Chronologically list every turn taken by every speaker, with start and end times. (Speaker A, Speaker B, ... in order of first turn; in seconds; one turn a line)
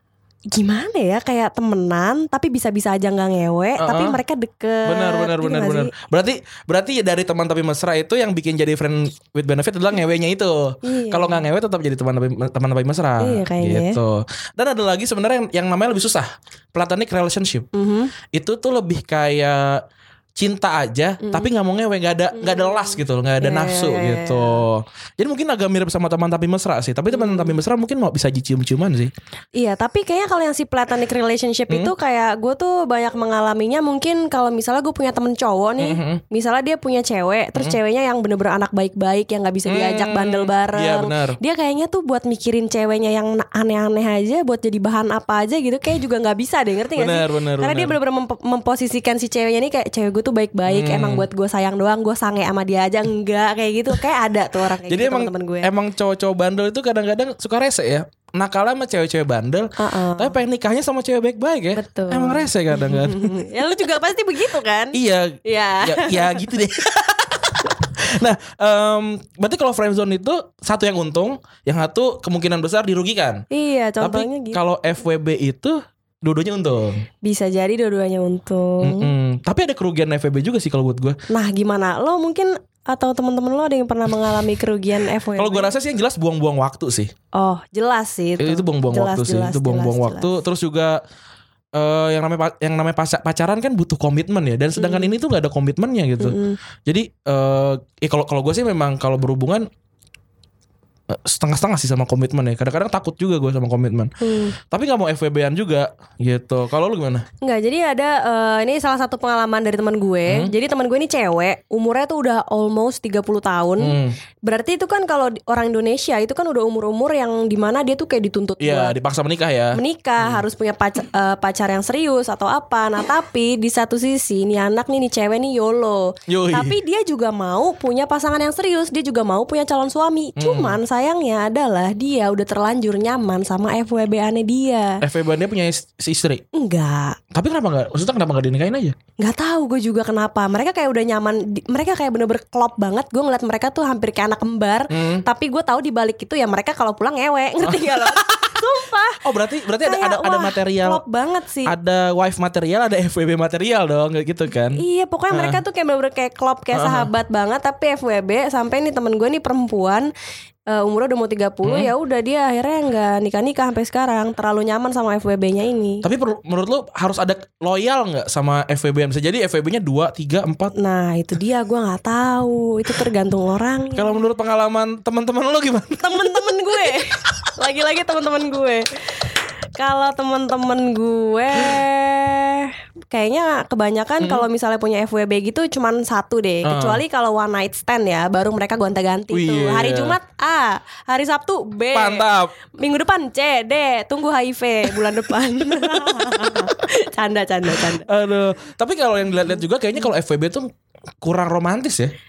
Speaker A: 0.5-5.9
Speaker B: 3.8-4.2
Speaker B: 4.8-17.7
Speaker A: 10.8-11.4
Speaker A: 13.2-14.0
Speaker A: 17.7-18.1
Speaker B: 18.3-19.8
Speaker B: 20.4-29.1
Speaker A: 21.2-21.5
Speaker A: 22.3-24.6
Speaker A: 27.1-27.6
Speaker A: 29.5-55.7
Speaker B: 35.8-36.2
Speaker B: 39.6-41.4
Speaker B: 47.0-48.0
Speaker B: 50.6-51.3
Speaker B: 54.9-63.4
Speaker A: 59.8-60.4
Speaker A: 61.7-66.5
Speaker B: 64.9-73.4
Speaker A: 73.5-74.6
Speaker B: 74.0-77.0
Speaker A: 77.2-79.1
Speaker B: 78.8-81.2
Speaker A: 81.3-85.7
Speaker B: 85.4-87.1
Speaker A: 87.3-90.4
Speaker B: 88.4-91.0
Speaker B: 91.7-99.7
Speaker A: 94.8-95.2
Speaker A: 96.2-96.6
Speaker B: 101.1-104.1
Speaker A: 104.2-104.5
Speaker B: 104.7-107.2
Speaker A: 107.4-118.9
Speaker B: 110.2-110.5
Speaker B: 113.8-114.2
Speaker B: 118.6-120.4
Speaker A: 119.7-135.0
Speaker B: 126.3-126.8
Speaker B: 130.4-130.8
Speaker B: 135.0-136.4
Speaker A: 136.5-137.2
Speaker B: 137.3-138.9
Speaker A: 139.2-149.2
Speaker B: 144.9-145.2
Speaker B: 147.6-148.5
Speaker B: 149.2-151.0
Speaker A: 149.8-151.7
Speaker B: 151.6-155.6
Speaker A: 154.7-160.1
Speaker B: 156.7-157.1
Speaker A: 160.7-166.0
Speaker B: 161.6-161.9
Speaker B: 166.0-170.7
Speaker A: 170.8-174.2
Speaker B: 173.9-176.5
Speaker A: 176.0-192.3
Speaker B: 184.2-184.4
Speaker B: 186.6-187.0
Speaker B: 189.3-190.2
Speaker B: 191.9-192.5
Speaker A: 192.8-198.1
Speaker B: 195.9-196.1
Speaker B: 197.8-200.7
Speaker A: 199.6-200.0
Speaker B: 201.2-202.1